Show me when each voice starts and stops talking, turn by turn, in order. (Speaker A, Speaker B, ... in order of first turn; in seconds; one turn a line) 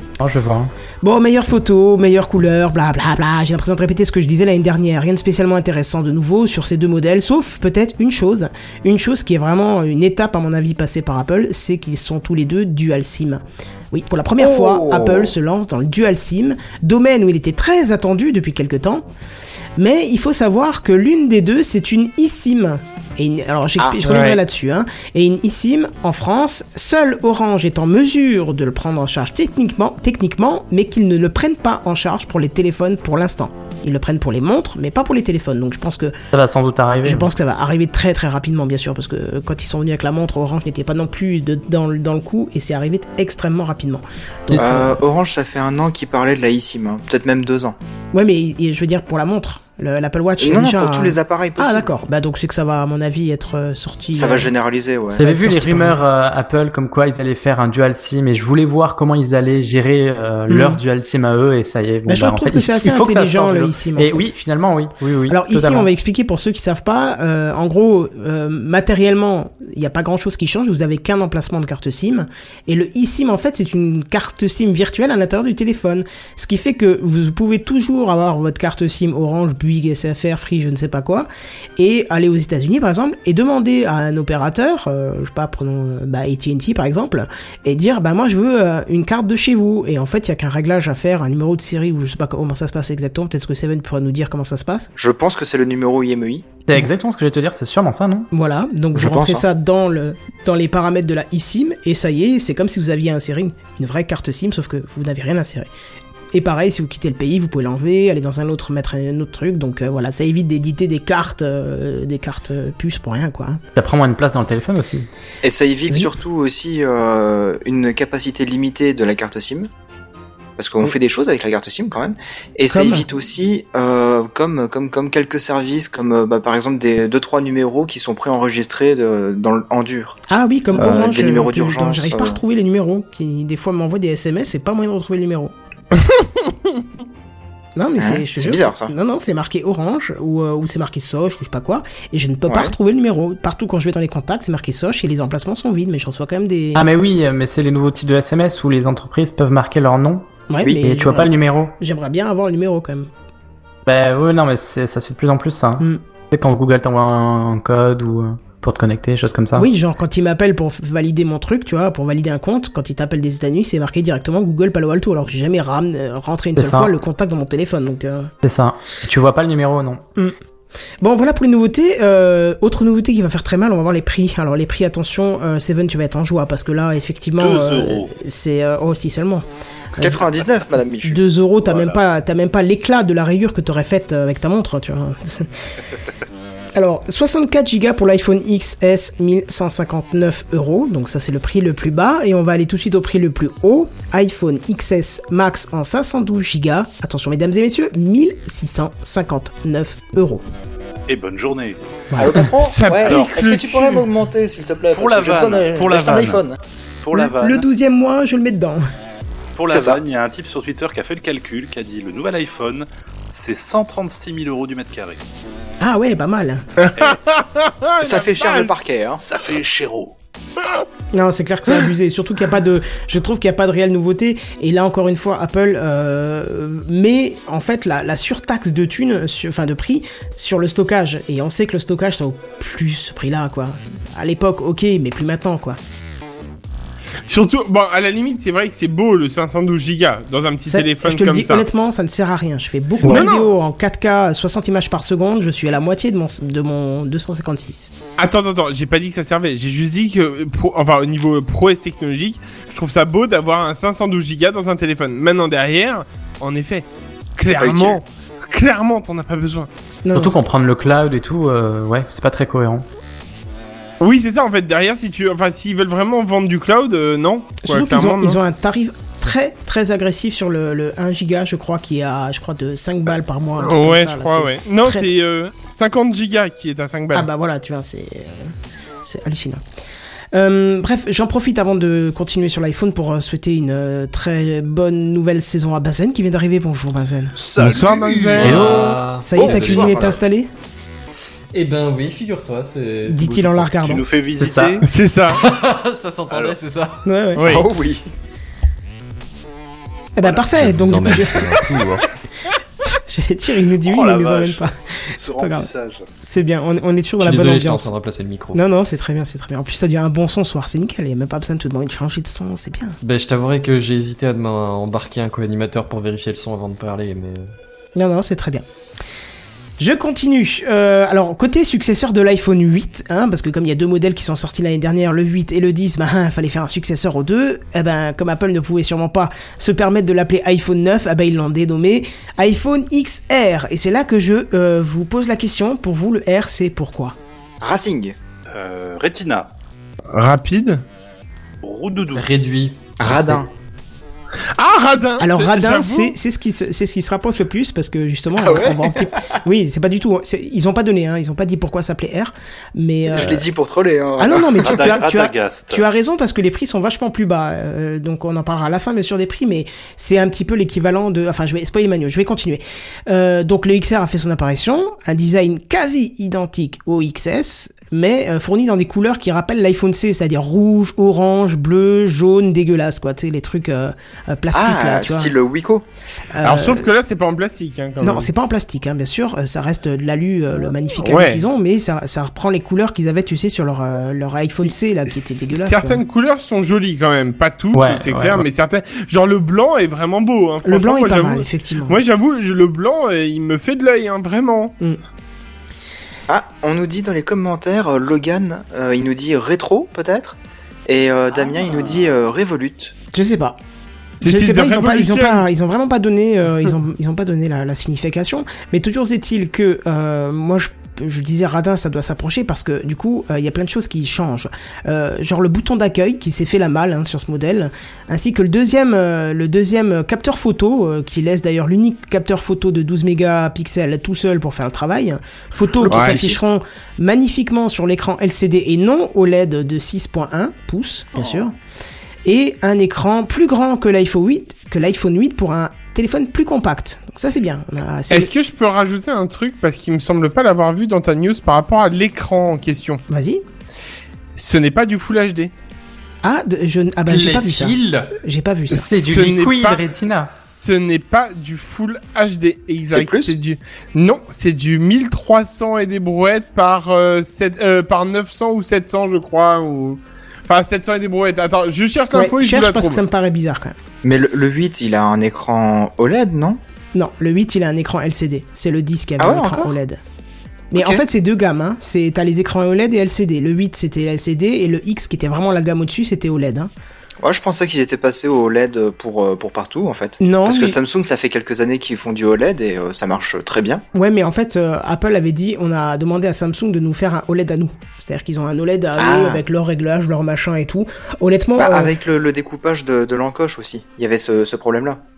Speaker A: 0.2-0.7
Speaker B: 1.0-19.1
Speaker C: 14.4-15.3
Speaker B: 19.8-36.1
Speaker D: 24.1-24.4
Speaker A: 36.3-37.3
Speaker B: 37.0-45.0
Speaker C: 44.5-47.8
Speaker B: 48.1-54.5
Speaker C: 50.4-51.9
Speaker C: 54.1-55.3
Speaker A: 55.1-65.9
Speaker B: 55.2-56.0
Speaker B: 60.5-60.8
Speaker B: 62.1-64.3
Speaker B: 65.3-94.9
Speaker C: 95.0-96.5
Speaker A: 96.7-98.3
Speaker B: 98.3-105.7
Speaker C: 98.9-99.5
Speaker B: 106.3-113.6
Speaker A: 113.8-115.1
Speaker C: 115.4-119.7
Speaker C: 120.6-130.2
Speaker B: 122.7-123.0
Speaker B: 130.3-135.5
Speaker C: 130.8-132.4
Speaker D: 135.9-136.7
Speaker B: 137.8-146.8
Speaker C: 138.0-138.9
Speaker C: 142.5-142.7
Speaker A: 146.8-151.7
Speaker B: 150.5-153.1
Speaker A: 153.9-159.7
Speaker B: 159.6-168.3
Speaker A: 166.6-166.9
Speaker A: 168.4-170.0
Speaker B: 171.0-180.3
Speaker E: 177.4-178.1
Speaker C: 180.0-181.2
Speaker B: 181.0-185.7
Speaker E: 181.6-182.0
Speaker B: 186.8-200.4
Speaker E: 201.1-201.8
Speaker B: 202.1-202.4
Speaker C: 202.2-206.6
Speaker D: 202.6-204.1
Speaker E: 203.0-203.3
Speaker E: 204.9-206.4
Speaker E: 207.0-207.6
Speaker B: 207.1-208.8
Speaker E: 209.6-215.2
Speaker C: 209.7-210.0
Speaker B: 215.8-216.6
Speaker D: 216.8-218.7
Speaker C: 217.9-219.2
Speaker E: 219.2-220.1
Speaker B: 221.1-235.8
Speaker D: 237.3-241.7
Speaker B: 240.7-247.9
Speaker D: 243.0-243.5
Speaker D: 248.2-256.9
Speaker D: 257.4-259.7
Speaker C: 257.5-258.0
Speaker B: 260.1-260.4
Speaker A: 260.1-262.9
Speaker D: 264.0-268.4
Speaker B: 267.6-275.1
Speaker D: 273.6-277.3
Speaker B: 277.1-279.6
Speaker B: 280.3-287.4
Speaker E: 287.4-288.6
Speaker D: 287.6-288.5
Speaker B: 288.2-290.5
Speaker F: 288.4-290.2
Speaker A: 288.4-289.0
Speaker C: 289.3-290.2
Speaker F: 291.5-293.8
Speaker B: 293.1-294.1
Speaker E: 293.8-294.9
Speaker A: 294.4-294.8
Speaker D: 294.8-295.4
Speaker F: 295.3-297.0
Speaker E: 296.3-296.6
Speaker B: 297.1-297.4
Speaker D: 297.4-297.7
Speaker C: 297.5-298.1
Speaker B: 300.2-301.7
Speaker E: 300.3-301.0
Speaker F: 300.5-302.1
Speaker B: 302.9-305.7
Speaker E: 303.9-306.1
Speaker B: 306.2-307.9
Speaker F: 307.2-308.6
Speaker B: 308.5-313.0
Speaker F: 313.0-317.5
Speaker B: 318.0-318.6
Speaker B: 319.8-337.1
Speaker C: 337.6-338.2
Speaker E: 338.5-339.5
Speaker D: 340.1-340.8
Speaker E: 341.6-342.3
Speaker F: 342.1-343.4
Speaker C: 343.0-343.5
Speaker D: 344.6-346.1
Speaker B: 345.2-353.4
Speaker C: 348.4-349.1
Speaker C: 353.1-354.9
Speaker B: 354.2-375.3
Speaker E: 354.6-355.9
Speaker C: 374.5-375.9
Speaker B: 376.3-376.9
Speaker D: 376.4-378.3
Speaker B: 378.0-386.0
Speaker D: 381.0-381.4
Speaker D: 385.1-394.7
Speaker A: 387.7-388.4
Speaker B: 390.6-392.0
Speaker C: 396.3-402.9
Speaker B: 403.1-403.6
Speaker D: 404.2-405.4
Speaker B: 404.2-431.6
Speaker C: 425.9-426.4
Speaker D: 425.9-426.2
Speaker B: 432.2-438.3
Speaker D: 438.1-443.0
Speaker B: 443.1-443.4
Speaker D: 444.4-445.5
Speaker B: 446.2-449.0
Speaker F: 447.1-448.1
Speaker A: 448.7-450.3
Speaker D: 449.0-463.0
Speaker C: 452.9-453.4
Speaker B: 462.1-463.8
Speaker C: 464.0-466.6
Speaker B: 466.9-470.0
Speaker C: 469.2-469.8
Speaker B: 470.7-476.7
Speaker C: 470.7-471.0
Speaker C: 477.2-483.8
Speaker B: 480.2-480.8
Speaker B: 483.9-491.9
Speaker C: 489.0-489.4
Speaker C: 491.6-495.0